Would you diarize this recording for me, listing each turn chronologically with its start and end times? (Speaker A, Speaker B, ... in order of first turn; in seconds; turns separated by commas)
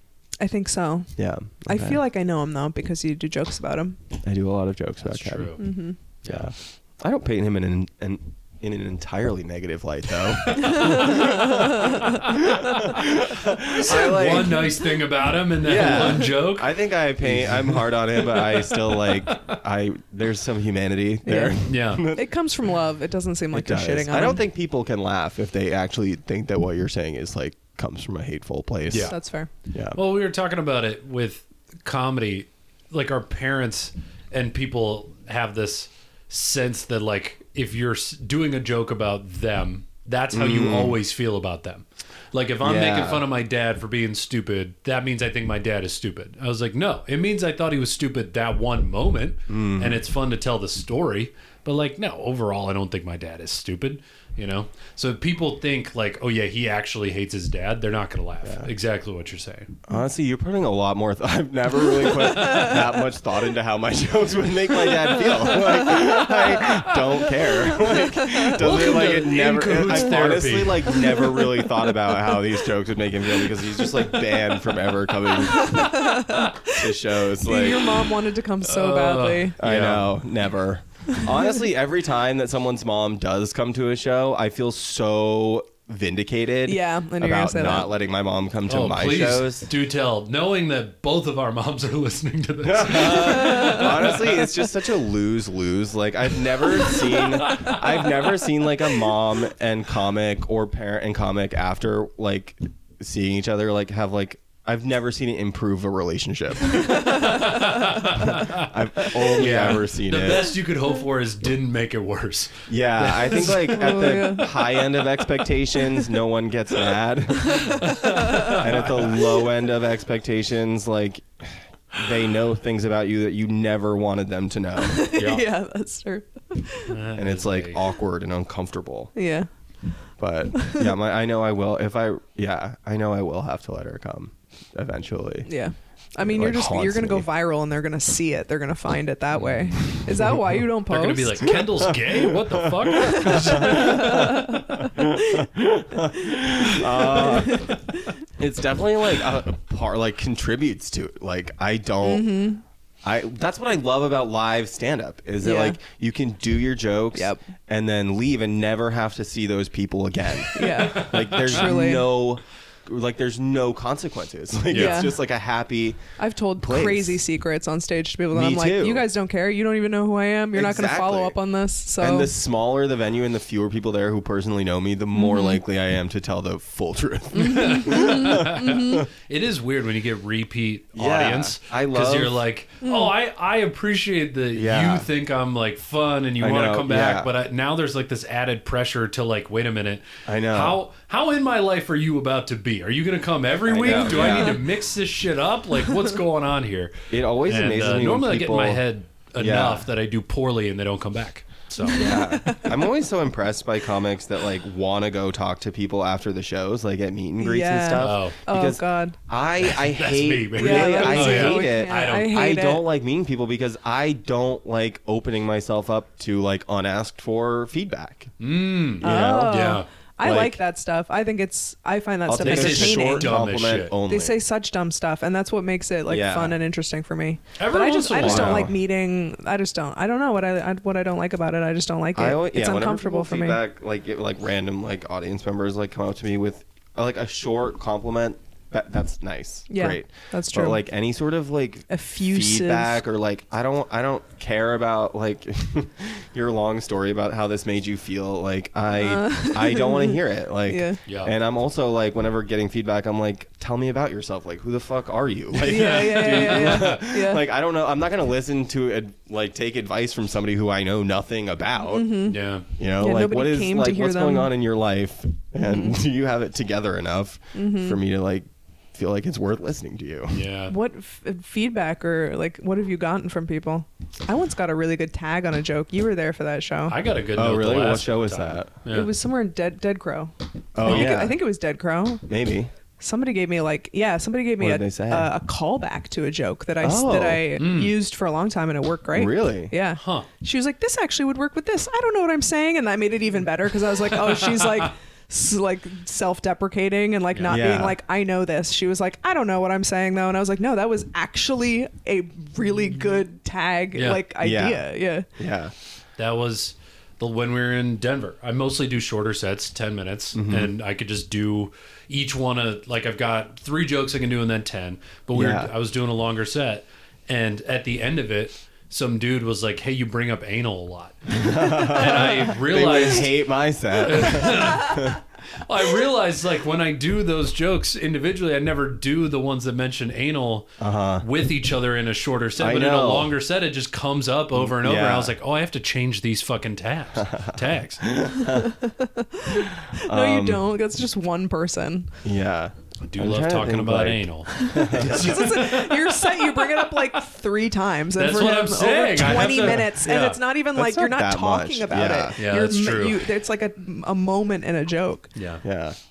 Speaker A: 0.4-1.1, Speaker B: 1.2-2.0, Speaker A: 1.7-4.0, Speaker B: 4.2-5.6, Speaker C: 5.0-5.7, Speaker A: 5.6-6.0, Speaker C: 6.2-6.5, Speaker B: 6.3-14.8, Speaker C: 10.4-10.9, Speaker A: 10.6-12.2, Speaker C: 11.9-12.4, Speaker C: 13.7-19.6, Speaker A: 13.9-14.7, Speaker B: 15.6-22.3, Speaker A: 21.2-24.4, Speaker C: 21.6-22.1, Speaker B: 23.5-29.1, Speaker C: 28.9-29.1, Speaker A: 29.1-29.5, Speaker B: 29.7-30.0, Speaker C: 29.9-59.7, Speaker B: 40.3-41.0, Speaker B: 42.6-43.2, Speaker B: 49.5-50.0, Speaker B: 58.4-58.7, Speaker B: 59.9-78.0, Speaker A: 62.3-62.8, Speaker A: 67.8-68.3, Speaker C: 68.5-71.2, Speaker A: 71.1-71.5, Speaker A: 75.3-79.6, Speaker C: 78.6-80.1, Speaker B: 79.6-89.7, Speaker A: 81.1-81.4, Speaker A: 86.7-87.9, Speaker C: 88.7-94.5, Speaker B: 92.7-107.5, Speaker C: 97.4-97.8, Speaker C: 106.8-114.0, Speaker A: 107.1-107.6, Speaker B: 108.0-110.5, Speaker B: 112.7-125.1, Speaker A: 113.4-114.8, Speaker A: 117.5-118.7, Speaker C: 117.6-119.1, Speaker A: 124.8-126.9, Speaker C: 125.1-125.5, Speaker C: 126.9-127.8, Speaker B: 127.2-129.1, Speaker A: 129.2-129.5, Speaker B: 130.2-135.5, Speaker A: 130.6-130.9, Speaker A: 135.4-141.5, Speaker B: 136.2-137.3, Speaker C: 140.9-144.5, Speaker B: 141.9-147.8, Speaker A: 143.0-148.0, Speaker B: 148.4-152.4, Speaker A: 152.0-152.6, Speaker B: 153.0-166.0, Speaker A: 155.4-155.8, Speaker A: 157.1-157.4, Speaker A: 160.5-162.1, Speaker C: 160.9-161.4, Speaker A: 164.7-165.2, Speaker C: 164.7-165.1, Speaker A: 166.2-172.3, Speaker B: 166.6-167.2, Speaker B: 168.3-169.1, Speaker B: 170.5-171.4, Speaker B: 172.0-179.0, Speaker A: 175.1-175.6, Speaker C: 177.4-202.1, Speaker A: 177.4-179.1, Speaker B: 180.9-182.4, Speaker A: 182.8-183.1, Speaker B: 184.5-185.1, Speaker B: 186.4-187.3, Speaker B: 190.3-190.8, Speaker B: 193.7-194.6, Speaker A: 194.2-194.5, Speaker B: 197.1-198.8, Speaker B: 199.4-199.9, Speaker B: 201.9-218.3, Speaker A: 201.9-202.9, Speaker A: 207.4-209.2, Speaker C: 208.0-208.4, Speaker C: 209.6-212.4, Speaker A: 210.6-212.8, Speaker C: 218.4-219.9, Speaker B: 219.0-219.6, Speaker A: 219.0-223.3, Speaker B: 220.2-220.6, Speaker B: 222.3-224.4, Speaker C: 222.4-223.9, Speaker A: 224.1-233.6, Speaker B: 226.1-226.6, Speaker C: 227.6-228.7, Speaker B: 228.1-228.7, Speaker B: 232.1-270.4, Speaker A: 239.7-240.8, Speaker A: 241.9-243.0, Speaker A: 248.9-251.0, Speaker C: 251.1-251.3, Speaker A: 255.6-257.5, Speaker C: 255.6-257.1, Speaker A: 261.9-262.4, Speaker C: 262.3-262.7, Speaker A: 263.0-264.5, Speaker A: 265.6-266.0, Speaker A: 267.6-268.0, Speaker C: 270.3-270.7, Speaker A: 270.7-276.9, Speaker C: 276.9-279.1, Speaker B: 277.3-278.7, Speaker A: 278.9-282.2, Speaker B: 280.7-281.4, Speaker C: 280.8-281.1, Speaker B: 282.3-282.7, Speaker A: 283.0-305.3, Speaker B: 284.6-285.3, Speaker B: 286.8-287.5, Speaker C: 287.5-287.9, Speaker B: 289.1-289.7, Speaker C: 289.9-290.3, Speaker C: 294.4-294.8, Speaker C: 297.3-297.6, Speaker B: 297.5-298.0, Speaker C: 303.9-304.2, Speaker B: 304.4-305.7, Speaker C: 306.2-323.3, Speaker B: 310.3-310.7, Speaker B: 315.3-315.7, Speaker B: 321.3-325.2, Speaker C: 324.0-338.0, Speaker B: 330.8-331.3, Speaker B: 332.6-333.3, Speaker B: 334.6-335.3, Speaker B: 337.2-338.8, Speaker A: 338.5-342.1, Speaker B: 339.6-340.7, Speaker B: 342.2-345.4, Speaker C: 343.0-346.8, Speaker A: 344.5-355.3, Speaker C: 348.2-350.4, Speaker B: 350.7-352.7, Speaker C: 352.4-353.2, Speaker C: 355.3-355.6, Speaker B: 355.6-355.9